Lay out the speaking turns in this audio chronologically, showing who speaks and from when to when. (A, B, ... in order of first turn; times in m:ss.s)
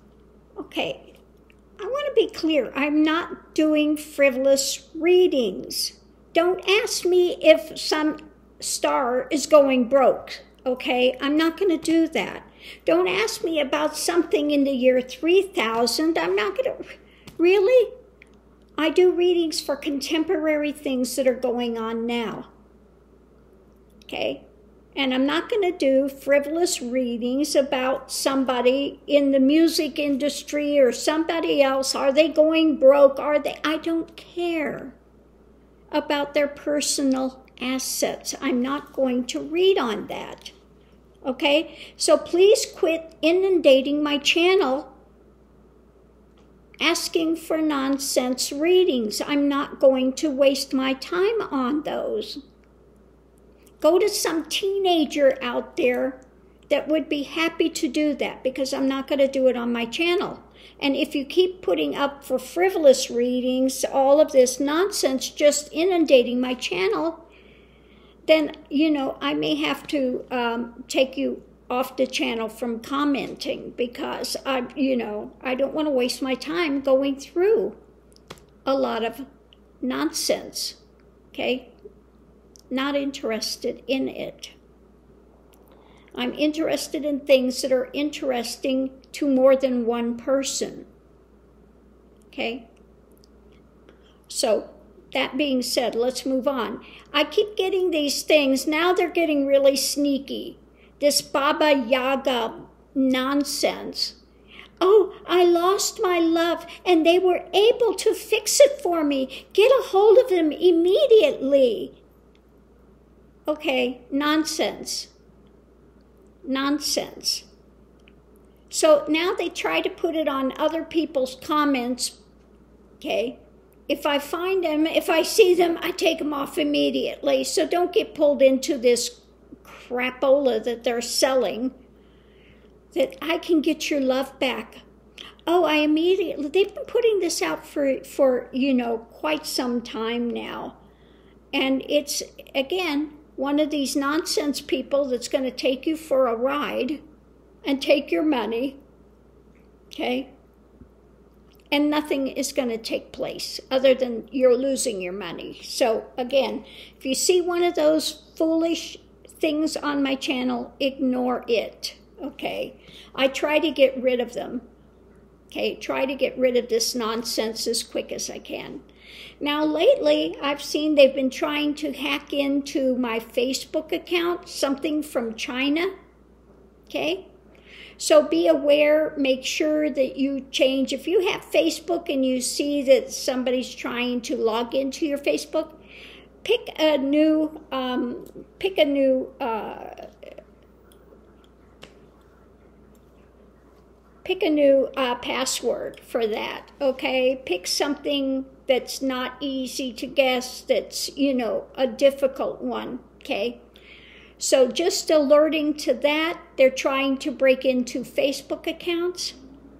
0:00.6-0:01.1 A
0:01.8-0:17.9 A
0:18.8-0:22.5 A
0:24.1-0:24.4 A
0:24.9-0:35.0 A
0:35.9-0:40.5 A
0:41.2-0:44.9 A
0:46.8-0:52.4 A
0:53.8-1:07.2 A
1:08.2-1:17.8 A
1:18.6-1:19.3 A
1:19.8-1:20.8 A
1:21.3-1:21.7 A
1:22.7-1:24.5 A
1:26.1-1:30.9 A
1:32.3-1:32.7 A
1:34.3-1:44.2 A
1:44.8-1:52.0 A
1:53.5-1:55.1 A
1:56.4-1:57.4 A
1:58.7-2:02.2 A
2:03.0-2:11.8 A
2:12.9-2:14.8 A
2:15.4-2:20.8 A
2:21.5-2:27.0 A
2:27.6-2:28.8 A
2:29.9-2:30.3 A
2:31.7-2:44.6 A
2:45.5-2:48.8 A
2:49.4-2:55.9 A
2:56.9-2:57.2 A
2:58.0-3:05.8 A
3:06.4-3:10.1 A
3:14.2-3:23.6 A
3:24.4-3:29.4 A